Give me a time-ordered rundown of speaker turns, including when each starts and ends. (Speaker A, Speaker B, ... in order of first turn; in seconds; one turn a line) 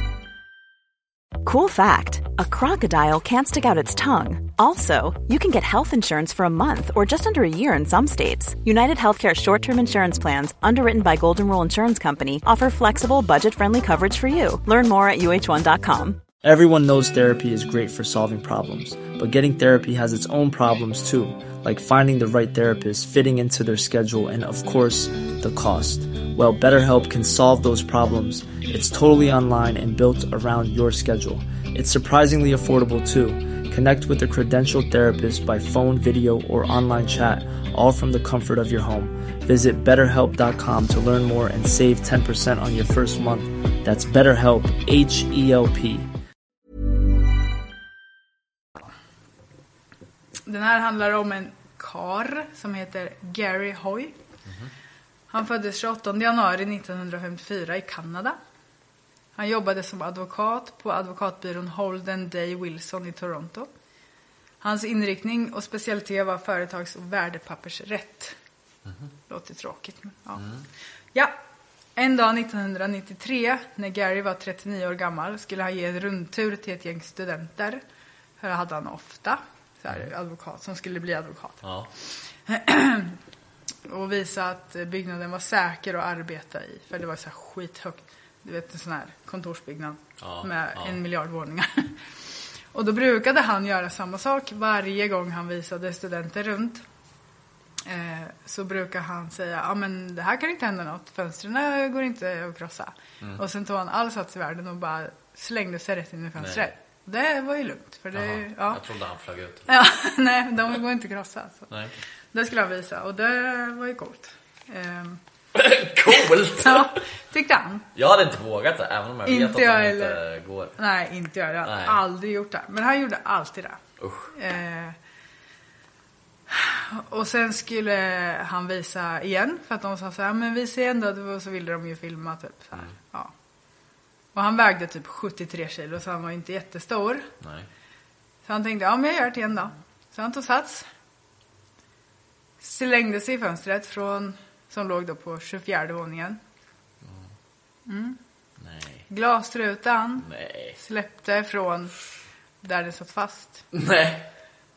Speaker A: 1.4-16.2
Speaker B: 16.4-46.1
Speaker C: 50.5-54.1
Speaker C: 55.3-58.4
Speaker C: 59.4-63.7
Speaker C: 64.6-68.3
Speaker C: 69.3-70.4
Speaker D: 70.4-70.6
Speaker C: 72.0-77.8
Speaker C: 78.4-81.6
Speaker D: 81.6-81.9
Speaker C: 82.5-83.2
Speaker C: 83.9-92.0
Speaker D: 90.2-91.0
Speaker C: 92.7-96.8
Speaker C: 97.8-108.8
Speaker D: 106.4-106.7
Speaker D: 108.1-109.7
Speaker C: 109.7-111.7
Speaker C: 112.3-115.2
Speaker D: 115.5-117.0
Speaker C: 116.4-117.9
Speaker D: 117.9-120.8
Speaker C: 119.2-120.2
Speaker C: 120.8-123.8
Speaker D: 121.6-122.0
Speaker D: 124.0-124.3
Speaker C: 124.3-125.0
Speaker C: 126.5-133.3
Speaker C: 134.3-137.3
Speaker D: 137.4-137.7
Speaker C: 138.4-140.8
Speaker C: 142.6-146.4
Speaker C: 147.8-148.2
Speaker D: 148.6-149.0
Speaker C: 149.1-151.9
Speaker D: 150.2-150.8
Speaker C: 152.6-153.6
Speaker D: 153.7-154.3